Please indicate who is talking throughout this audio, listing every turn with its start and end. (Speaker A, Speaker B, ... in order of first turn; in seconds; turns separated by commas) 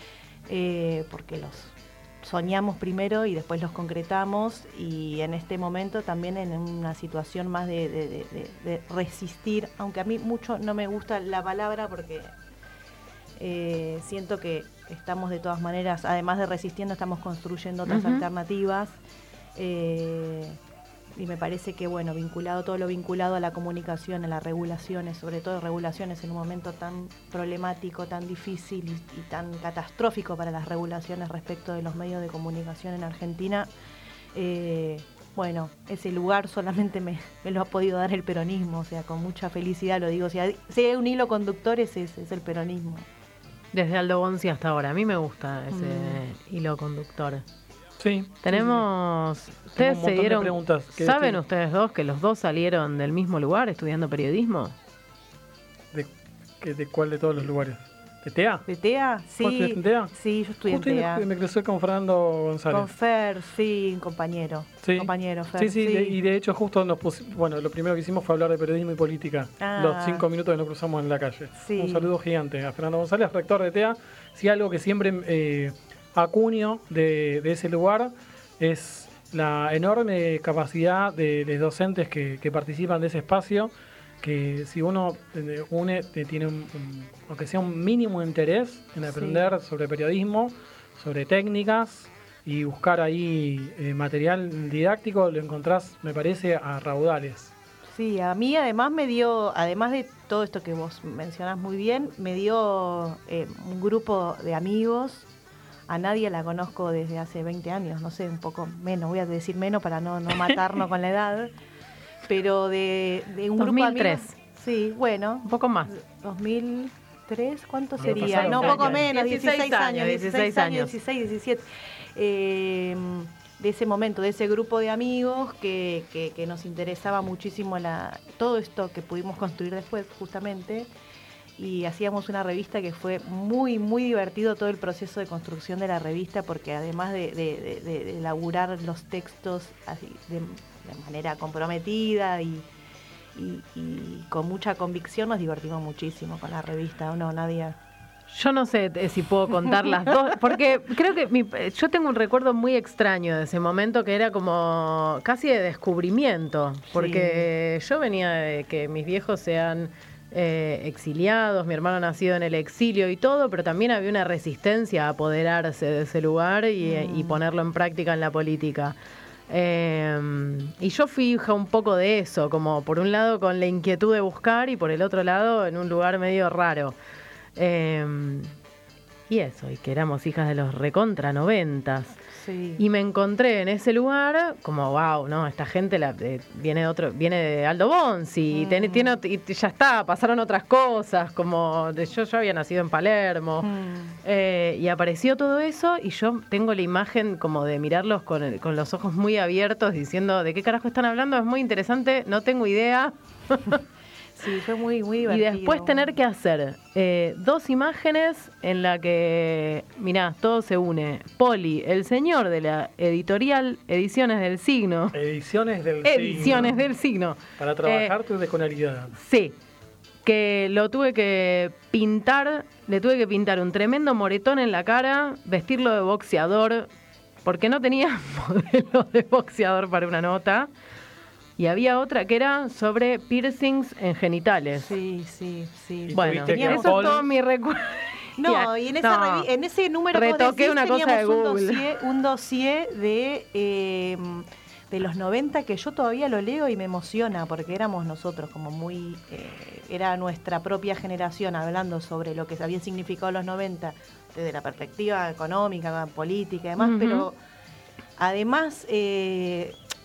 Speaker A: 0.5-12.3, Speaker A: 13.4-19.0, Speaker B: 17.9-18.2, Speaker A: 19.5-20.6, Speaker A: 21.1-33.7, Speaker A: 34.3-43.1, Speaker B: 43.7-47.4, Speaker A: 45.7-46.2, Speaker C: 48.0-48.8, Speaker B: 48.4-54.7, Speaker C: 49.8-51.4, Speaker C: 55.9-58.6, Speaker A: 58.6-61.2, Speaker C: 59.4-60.1, Speaker C: 60.7-62.9, Speaker A: 62.7-66.2, Speaker C: 64.8-97.5, Speaker A: 69.6-70.2, Speaker A: 71.5-72.1, Speaker A: 89.0-89.4, Speaker A: 97.9-105.3, Speaker A: 105.9-111.5, Speaker A: 112.2-130.9, Speaker B: 113.6-114.3, Speaker B: 115.4-115.9, Speaker C: 118.0-119.0, Speaker B: 118.1-120.9, Speaker A: 131.6-142.7, Speaker A: 143.3-147.8, Speaker B: 148.3-168.9, Speaker A: 149.7-150.1, Speaker A: 156.9-157.5, Speaker A: 166.8-167.4, Speaker B: 169.5-176.9, Speaker B: 177.6-178.5, Speaker B: 179.3-182.2, Speaker A: 182.3-182.8, Speaker B: 182.8-193.7, Speaker A: 188.5-189.2, Speaker A: 193.6-194.2, Speaker B: 194.2-203.8, Speaker A: 204.3-206.1, Speaker B: 205.2-215.2, Speaker C: 215.1-216.8, Speaker B: 216.0-218.1, Speaker C: 217.6-219.1, Speaker B: 219.1-219.6, Speaker B: 220.2-226.9, Speaker B: 227.4-230.7, Speaker B: 231.6-234.9, Speaker A: 234.8-237.2, Speaker C: 236.1-237.2, Speaker B: 236.1-239.5, Speaker A: 238.4-257.4, Speaker B: 240.1-241.8, Speaker B: 256.8-257.3, Speaker A: 258.2-259.8